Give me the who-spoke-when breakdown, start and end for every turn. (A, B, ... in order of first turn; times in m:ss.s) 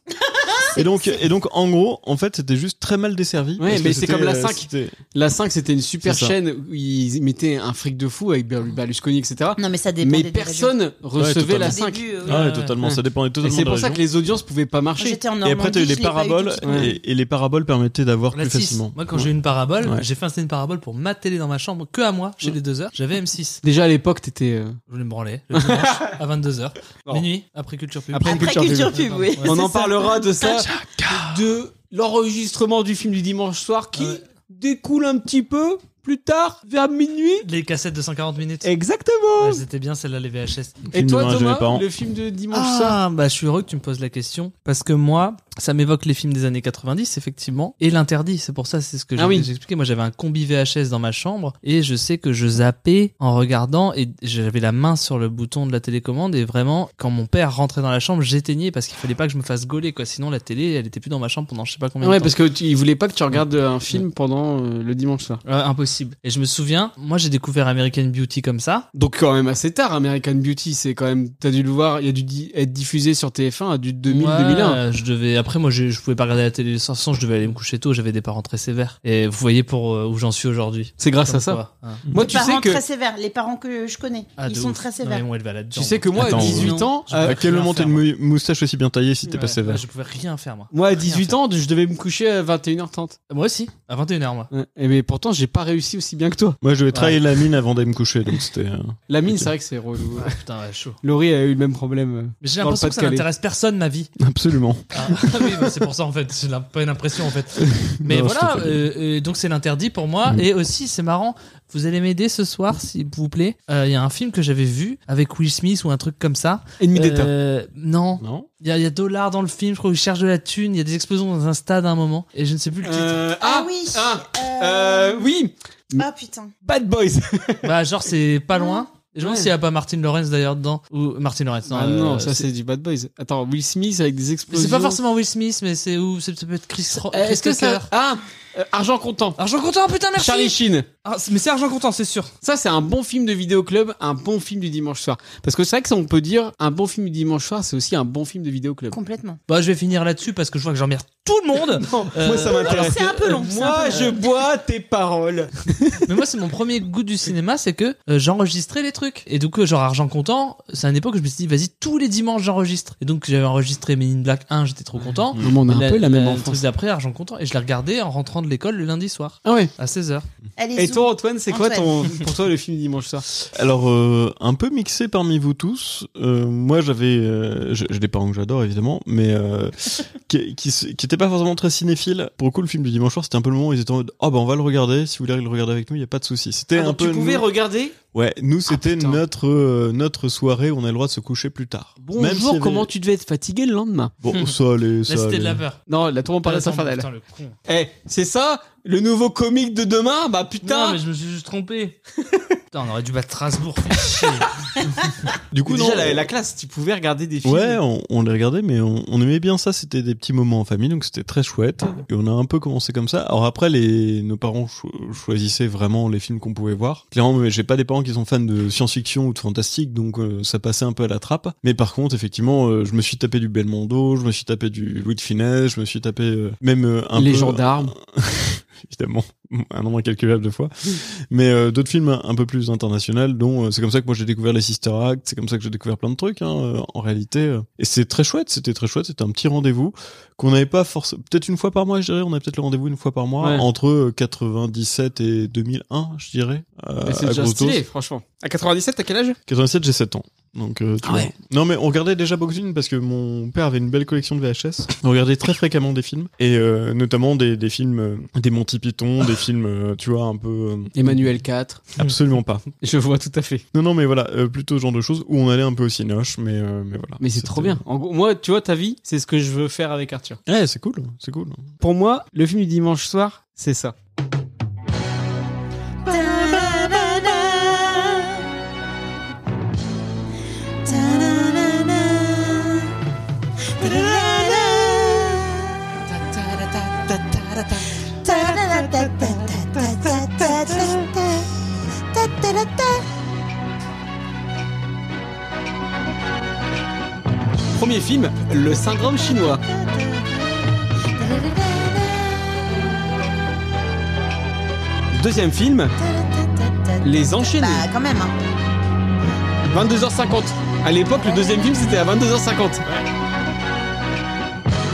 0:00.3-0:01.2 A
0:00.7-0:05.0 B
0:03.6-0:12.2 C
0:06.0-0:06.4 B
0:09.6-0:10.7 A
0:11.2-0:14.0 B
0:11.6-0:12.4 A
0:12.2-0:12.8 D
0:12.8-0:15.2 C
0:15.0-0:16.9 A
0:15.4-0:19.3 B
0:16.6-0:16.9 C
0:18.3-0:23.6 D
0:23.6-0:24.8 C
0:24.9-0:29.6 D
0:25.5-0:26.2 C
0:28.1-0:37.5 C
0:28.2-0:30.6 A
0:30.6-0:31.3 B
0:34.0-0:34.2 D
0:37.4-0:38.7 D
0:38.6-0:39.6 C
0:39.4-0:40.8 D
0:40.9-0:41.8 B
0:40.9-0:43.0 C
0:42.5-1:02.3 D
0:49.2-0:49.5 C
1:02.0-1:05.4 C
1:05.4-1:08.9 D
1:08.9-1:14.8 C
1:14.1-1:22.0 D
1:21.0-1:21.6 C
1:22.1-1:22.8 C
1:22.2-1:25.2 A
1:24.4-1:28.1 D
1:25.7-1:27.4 C
1:26.1-1:29.8 B
1:29.3-1:31.4 D
1:30.7-1:33.2 C
1:33.3-1:34.5 D
1:34.5-1:36.6 C
1:36.6-1:39.5 B
1:36.9-1:37.2 D
1:39.1-1:40.4 C
1:40.2-1:41.0 D
1:41.0-1:43.2 C
1:42.4-1:44.1 D
1:44.2-1:45.5 B
1:44.9-2:03.2 D
1:47.7-1:48.8 B
1:56.8-1:57.3 C
1:58.2-1:58.5 B
2:02.8-2:06.0 C
2:03.4-2:05.3 A
2:05.9-2:06.5 A
2:06.6-2:07.7 C
2:07.6-2:12.4 D
2:08.6-2:08.8 A
2:09.2-2:09.5 C
2:11.7-2:15.0 C
2:14.5-2:17.9 D
2:17.1-2:19.4 C
2:19.4-2:22.3 D
2:20.2-2:20.9 C
2:22.4-2:29.0 C
2:28.9-2:29.4 A
2:29.5-2:34.2 D
2:31.7-2:36.0 C
2:32.6-2:34.2 A
2:36.0-2:50.2 D
2:45.4-2:46.6 C
2:49.4-2:49.7 C
2:50.6-2:52.2 A
2:50.8-2:53.2 C
2:53.5-3:07.5 B
3:06.7-3:08.0 C
3:08.1-3:12.9 B
3:08.7-3:09.2 C
3:12.0-3:14.1 C
3:14.2-3:15.6 B
3:15.1-3:15.8 D
3:15.8-3:17.1 C
3:16.4-3:17.6 D
3:17.7-3:21.0 C
3:20.6-3:22.0 D
3:22.7-3:24.5 D
3:25.5-3:26.3 B
3:25.6-3:27.8 C
3:27.4-4:07.8 B
3:47.1-3:47.9 C
4:03.4-4:03.6 C
4:07.0-4:09.4 C
4:09.5-4:21.2 B
4:11.0-4:11.3 C
4:21.0-4:22.0 C
4:22.0-4:22.6 B
4:22.8-4:23.6 C
4:23.7-4:27.8 B
4:27.2-4:30.4 C
4:30.5-4:31.7 B
4:31.8-4:33.9 C
4:36.0-4:38.4 A
4:40.8-4:42.9 A
4:43.8-4:45.8 A
4:46.1-4:50.9 C
4:48.1-4:51.5 A
4:52.1-4:53.0 A
4:57.7-4:59.6 C
4:59.0-5:02.4 A
5:05.1-5:05.9 C
5:06.0-5:08.4 A
5:07.0-5:07.9 C
5:09.7-5:12.8 C
5:11.1-5:12.0 A